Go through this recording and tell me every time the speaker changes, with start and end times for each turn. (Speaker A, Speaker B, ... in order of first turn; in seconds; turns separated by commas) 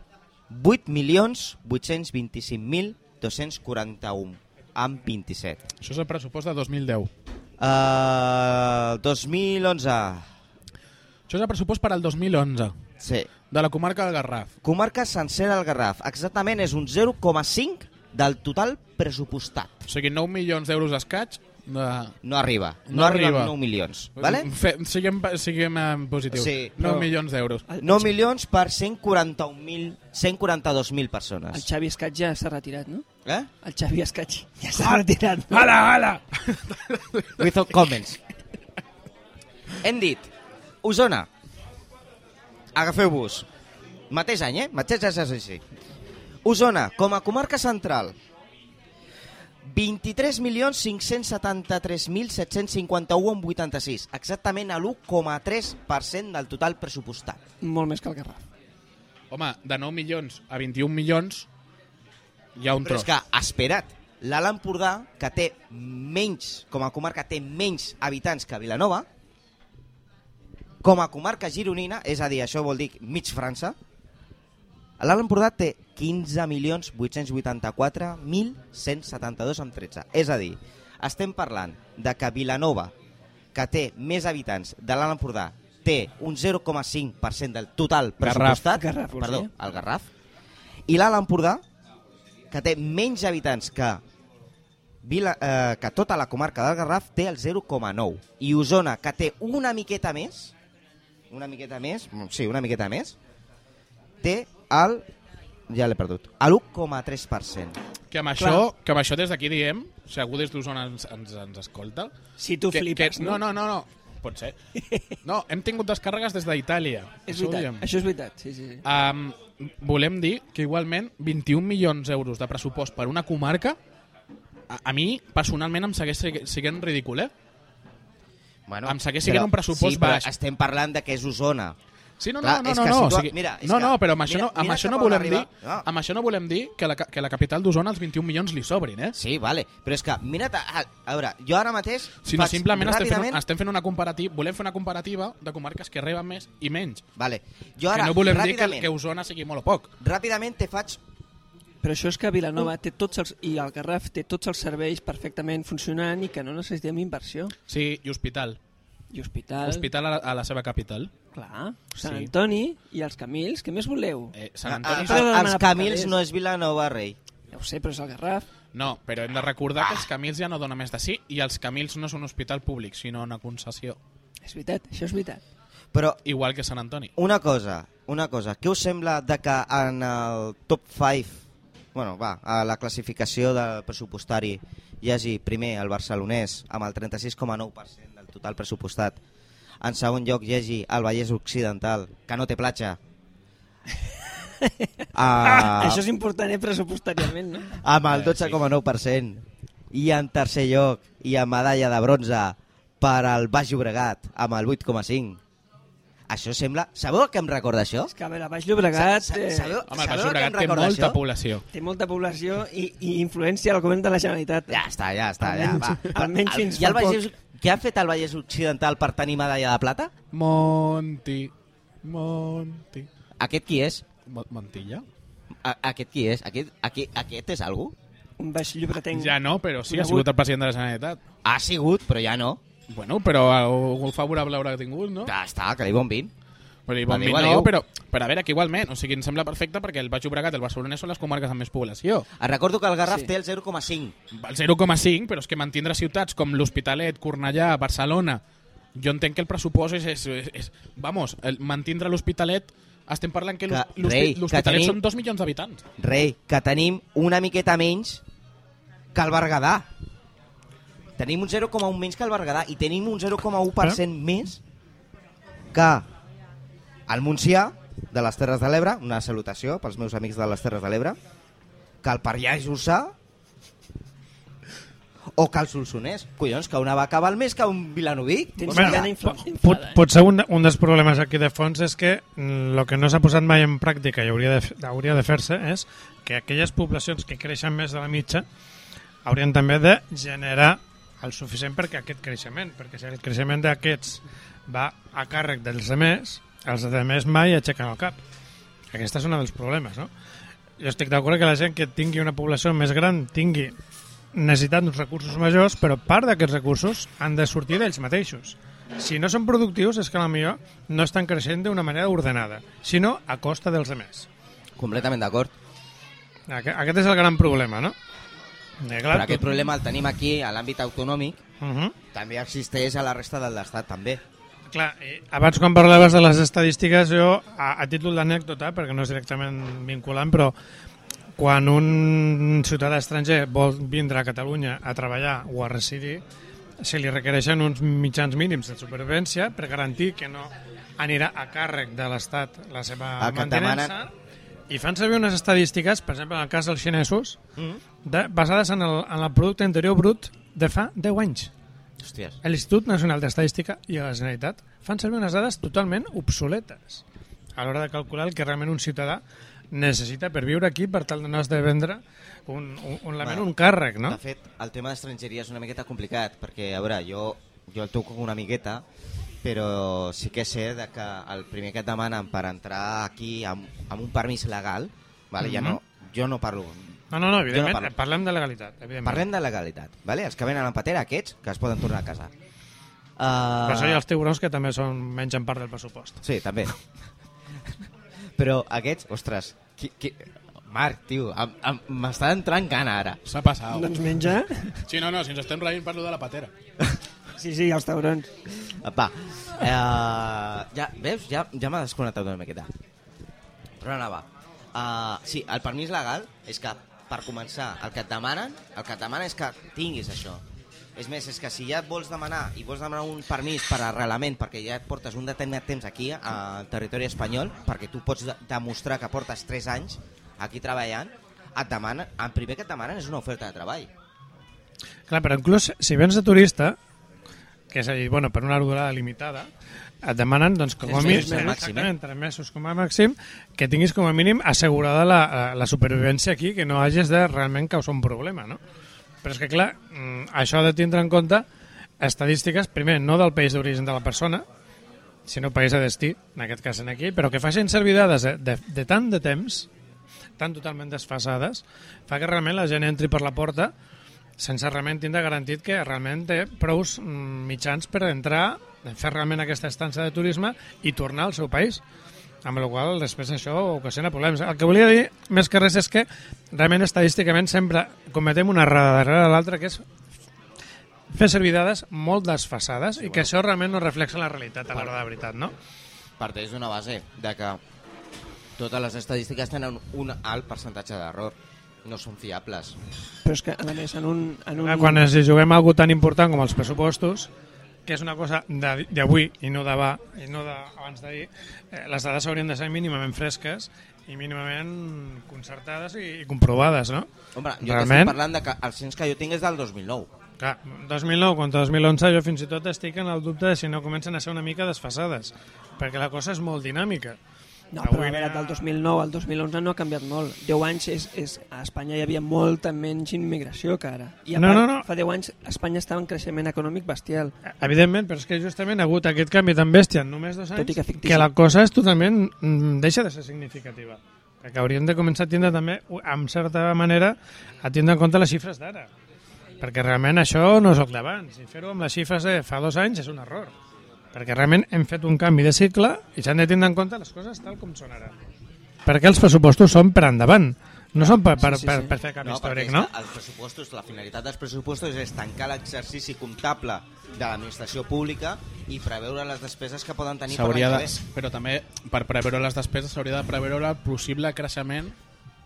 Speaker A: 0.5-5.6, Speaker B: 5.8-7.1, Speaker A: 7.6-10.2, Speaker B: 11.3-12.8, Speaker A: 13.0-13.3, Speaker B: 13.5-14.5, Speaker A: 14.6-19.9, Speaker B: 19.9-22.2, Speaker A: 22.2-24.5, Speaker B: 22.9-23.5, Speaker B: 24.2-27.6, Speaker A: 26.3-26.8, Speaker C: 26.8-27.1, Speaker C: 27.7-28.1, Speaker A: 27.8-31.7, Speaker C: 31.5-33.1, Speaker A: 33.2-33.5, Speaker C: 33.6-35.7, Speaker B: 34.8-37.5, Speaker A: 37.4-38.2, Speaker A: 39.8-40.3, Speaker A: 40.8-41.3, Speaker A: 42.8-43.5, Speaker A: 44.1-45.6, Speaker A: 46.4-48.2, Speaker A: 49.6-57.4, Speaker C: 57.6-58.4, Speaker B: 59.3-61.5, Speaker B: 62.6-63.1, Speaker A: 62.8-69.1, Speaker A: 70.8-73.8, Speaker A: 75.0-82.9, Speaker A: 83.5-90.1, Speaker B: 88.2-88.7, Speaker C: 88.7-89.5, Speaker A: 90.9-91.6, Speaker A: 92.5-94.0, Speaker A: 95.0-100.5, Speaker A: 101.3-103.2, Speaker A: 104.2-105.0, Speaker A: 105.7-107.8, Speaker B: 108.1-112.1, Speaker C: 108.4-108.7, Speaker C: 112.4-113.4, Speaker B: 112.7-114.6, Speaker C: 114.8-115.2, Speaker B: 115.2-117.9, Speaker C: 117.3-118.8, Speaker B: 118.8-123.8, Speaker B: 124.7-127.3, Speaker A: 128.7-131.8, Speaker B: 128.8-130.3, Speaker B: 132.2-139.2, Speaker A: 132.4-135.8, Speaker A: 139.1-143.4, Speaker B: 142.2-147.0, Speaker A: 147.2-148.9, Speaker B: 147.9-149.9, Speaker A: 150.0-151.0, Speaker C: 151.8-157.5, Speaker B: 157.7-158.6, Speaker C: 159.1-159.9, Speaker B: 159.6-161.1, Speaker C: 161.3-164.3, Speaker B: 162.0-162.3, Speaker B: 164.3-165.2, Speaker A: 164.6-167.2, Speaker C: 164.9-166.2, Speaker C: 167.5-168.5, Speaker B: 168.7-174.0, Speaker C: 174.4-175.4, Speaker A: 175.9-176.2, Speaker B: 176.2-177.1, Speaker A: 177.2-181.4, Speaker A: 181.9-189.2, Speaker A: 189.8-193.0, Speaker C: 194.6-197.8, Speaker A: 195.1-196.0, Speaker A: 197.8-205.4, Speaker B: 198.1-198.6, Speaker A: 206.3-208.1, Speaker C: 208.1-209.8, Speaker A: 208.9-211.2, Speaker B: 209.9-211.7, Speaker C: 211.7-214.8, Speaker A: 214.7-220.1, Speaker C: 215.4-217.2, Speaker B: 220.3-221.5, Speaker B: 222.0-223.1, Speaker A: 223.4-224.0, Speaker B: 224.3-225.1, Speaker A: 225.6-227.9, Speaker C: 228.4-230.3, Speaker B: 229.1-231.2, Speaker A: 231.4-232.6, Speaker B: 232.9-235.3, Speaker A: 235.2-236.3, Speaker B: 236.9-242.3, Speaker A: 237.1-237.7, Speaker A: 242.4-244.2, Speaker B: 244.3-248.4, Speaker B: 248.9-255.8, Speaker A: 253.7-255.0, Speaker A: 256.0-258.2, Speaker A: 259.1-259.9, Speaker A: 261.2-264.6, Speaker A: 265.7-266.1, Speaker A: 267.1-271.2, Speaker A: 272.0-273.1, Speaker A: 275.3-279.1, Speaker C: 278.6-280.0, Speaker D: 278.7-288.4, Speaker D: 289.2-298.2, Speaker D: 298.9-300.1, Speaker D: 300.8-303.8, Speaker D: 304.3-314.3, Speaker A: 314.8-315.5, Speaker D: 316.5-317.9, Speaker D: 318.8-319.5, Speaker A: 319.1-321.4, Speaker D: 321.6-321.9, Speaker A: 322.1-324.2, Speaker D: 324.7-330.5, Speaker D: 331.4-336.2, Speaker D: 336.8-344.1, Speaker A: 343.2-343.9, Speaker D: 344.7-347.4, Speaker D: 348.0-351.5, Speaker A: 352.0-352.4, Speaker D: 352.4-357.0, Speaker D: 357.6-364.2, Speaker A: 363.2-363.5, Speaker A: 364.1-368.8, Speaker A: 369.4-377.9, Speaker D: 375.4-375.8, Speaker D: 377.1-379.2, Speaker A: 379.0-382.3, Speaker A: 383.2-384.0, Speaker D: 383.7-386.2, Speaker A: 386.2-386.7, Speaker A: 388.4-393.2, Speaker B: 393.3-393.9, Speaker C: 393.7-394.8, Speaker B: 394.9-396.5, Speaker C: 397.4-398.3, Speaker A: 398.7-402.7, Speaker A: 403.8-410.4, Speaker A: 411.0-423.9, Speaker D: 425.1-426.8, Speaker D: 427.7-429.5, Speaker D: 430.0-438.6, Speaker C: 430.8-431.6, Speaker A: 430.9-431.9, Speaker D: 439.2-441.5, Speaker D: 442.0-444.4, Speaker D: 445.3-449.7, Speaker D: 450.4-453.7, Speaker D: 454.4-461.8, Speaker D: 462.4-469.9, Speaker D: 471.1-475.5, Speaker A: 473.0-473.3, Speaker A: 476.2-477.6, Speaker A: 478.6-482.8, Speaker C: 483.2-485.1, Speaker D: 484.6-487.3, Speaker D: 487.9-497.1, Speaker A: 497.4-500.1, Speaker D: 497.6-498.2, Speaker D: 500.4-507.2, Speaker C: 507.7-517.4, Speaker D: 507.8-508.7, Speaker D: 514.4-514.9, Speaker D: 517.6-528.9, Speaker C: 520.6-521.3, Speaker D: 529.6-533.5, Speaker D: 534.1-538.2, Speaker D: 538.9-542.9, Speaker C: 541.4-541.9, Speaker A: 542.2-551.0, Speaker B: 550.3-555.0